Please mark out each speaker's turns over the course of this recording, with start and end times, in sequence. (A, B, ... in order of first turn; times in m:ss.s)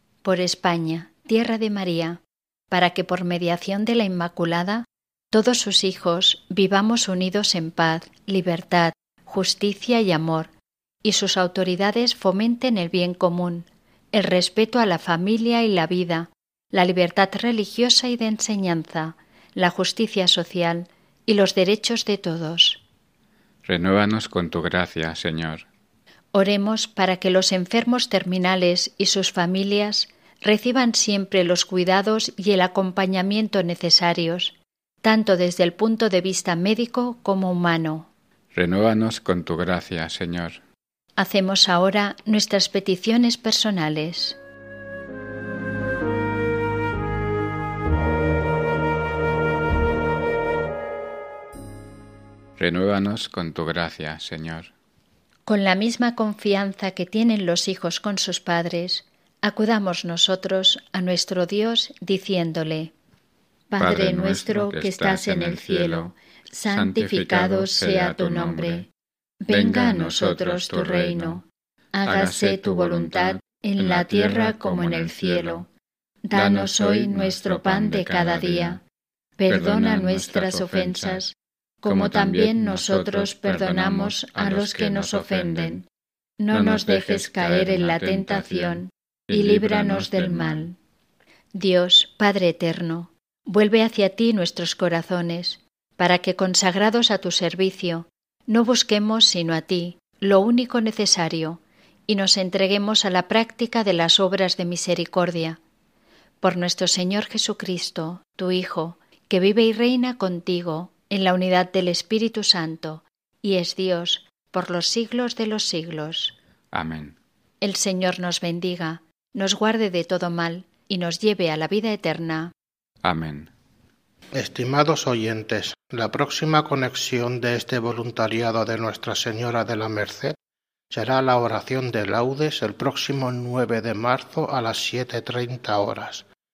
0:00.2-0:10.5 A
0:11.0-0:22.8 A
0:23.6-0:25.6 B
0:26.3-0:38.1 A
0:38.5-0:40.6 B
0:41.2-0:44.4 A
0:52.6-0:54.7 B
0:55.4-1:02.9 A
1:03.7-1:08.9 A
1:03.8-1:06.1 B
1:06.6-1:08.8 B
1:09.4-1:15.7 A
1:09.5-1:11.4 B
1:12.0-1:15.6 B
1:16.3-1:18.8 A
1:16.3-1:18.8 B
1:19.4-1:25.9 A
1:19.5-1:21.2 B
1:21.8-1:25.8 B
1:26.4-1:30.8 A
1:26.5-1:30.7 B
1:31.5-1:45.6 A
1:46.4-1:56.3 A
1:56.7-1:57.2 B
1:57.6-2:02.5 A
2:03.0-2:03.5 B
2:04.3-2:10.4 C
2:10.9-2:16.3 C